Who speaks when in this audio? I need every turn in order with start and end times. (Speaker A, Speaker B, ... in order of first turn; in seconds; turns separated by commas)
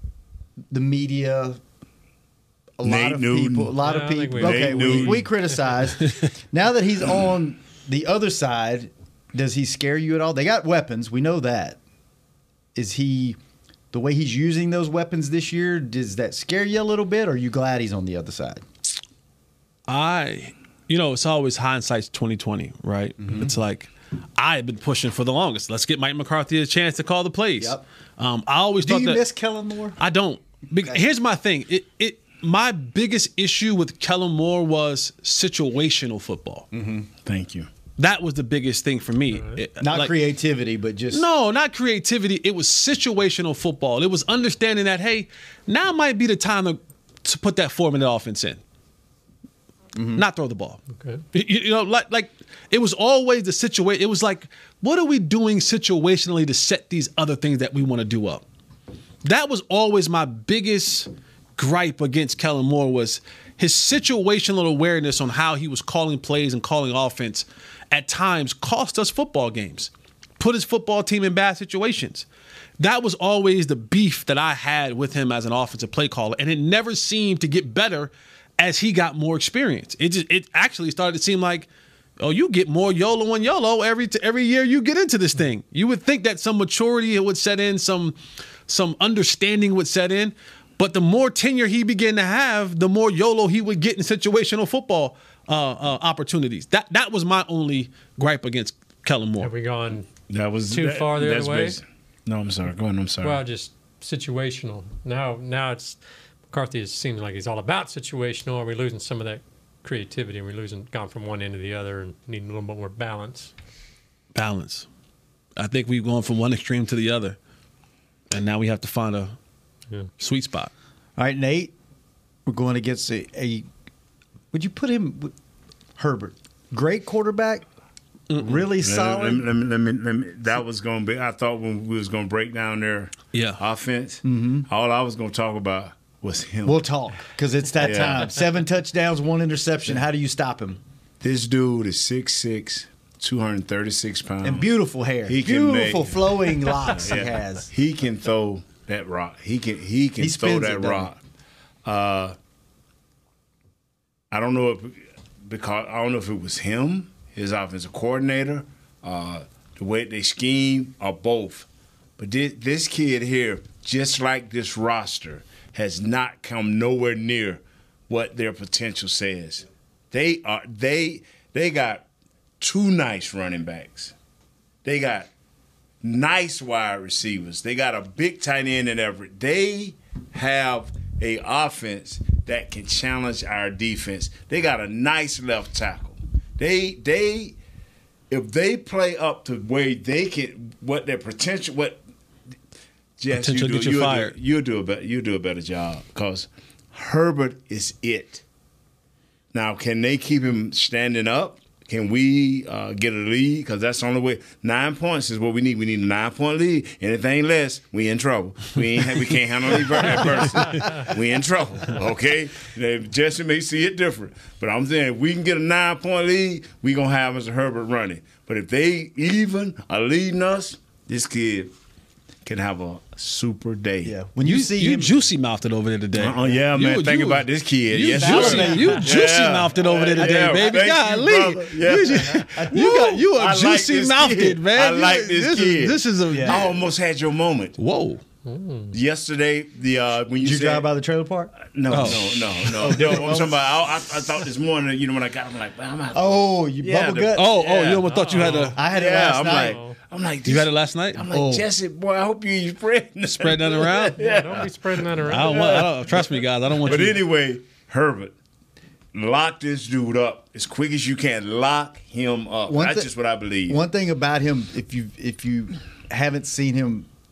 Speaker A: 0.7-1.6, Speaker A: 2.8-11.8, Speaker B: 2.8-3.8, Speaker C: 3.8-5.1, Speaker B: 4.3-5.3, Speaker A: 12.7-13.4, Speaker A: 13.9-18.6, Speaker D: 19.9-29.2, Speaker A: 23.2-23.5, Speaker A: 27.6-27.8, Speaker A: 28.8-30.0, Speaker D: 30.0-36.7, Speaker A: 30.8-31.0, Speaker A: 36.7-37.1, Speaker B: 37.2-37.7, Speaker D: 38.0-40.1, Speaker A: 39.8-41.2, Speaker D: 41.1-48.6, Speaker A: 49.9-50.2, Speaker D: 50.1-50.8, Speaker C: 51.0-51.2, Speaker D: 51.3-58.4, Speaker D: 59.2-72.2, Speaker D: 72.8-81.7, Speaker D: 82.2-99.5, Speaker C: 99.4-100.1, Speaker B: 100.3-103.4, Speaker C: 100.7-101.8, Speaker C: 103.2-113.5, Speaker D: 114.3-114.9, Speaker D: 115.5-117.4, Speaker D: 118.3-119.4, Speaker D: 120.2-120.7, Speaker A: 121.2-121.7, Speaker A: 122.5-123.7, Speaker A: 124.5-125.3, Speaker A: 126.0-127.7, Speaker D: 128.3-128.6, Speaker A: 128.3-129.5, Speaker B: 128.8-136.8, Speaker D: 133.3-133.6, Speaker A: 134.2-134.7, Speaker A: 136.6-140.8, Speaker B: 137.8-138.3, Speaker B: 141.2-144.7, Speaker A: 144.4-147.7, Speaker B: 145.2-151.2, Speaker A: 150.2-151.1, Speaker B: 151.8-152.3, Speaker B: 154.3-161.7, Speaker B: 162.2-172.0, Speaker B: 172.6-174.1, Speaker B: 174.8-175.3, Speaker B: 176.0-187.6, Speaker B: 188.3-192.0, Speaker B: 193.2-198.4, Speaker D: 193.3-194.3, Speaker B: 199.5-221.7, Speaker B: 222.4-224.1, Speaker A: 224.0-225.2, Speaker D: 224.4-236.7, Speaker B: 226.2-232.4, Speaker A: 228.2-229.1, Speaker A: 232.5-233.3, Speaker B: 233.3-237.7, Speaker A: 236.3-236.7, Speaker D: 237.8-238.2, Speaker C: 238.4-238.9, Speaker B: 238.9-240.9, Speaker A: 240.3-242.2, Speaker B: 241.7-256.2, Speaker D: 241.9-242.7, Speaker A: 242.8-243.6, Speaker A: 246.1-247.6, Speaker D: 247.3-248.8, Speaker C: 248.1-248.8, Speaker A: 248.8-249.8, Speaker C: 249.5-250.0, Speaker D: 250.4-251.2, Speaker A: 251.3-251.7, Speaker D: 253.4-254.2, Speaker C: 254.2-255.9, Speaker D: 255.2-257.2, Speaker B: 256.8-258.3, Speaker B: 259.1-263.8, Speaker A: 262.7-263.1, Speaker A: 263.7-267.1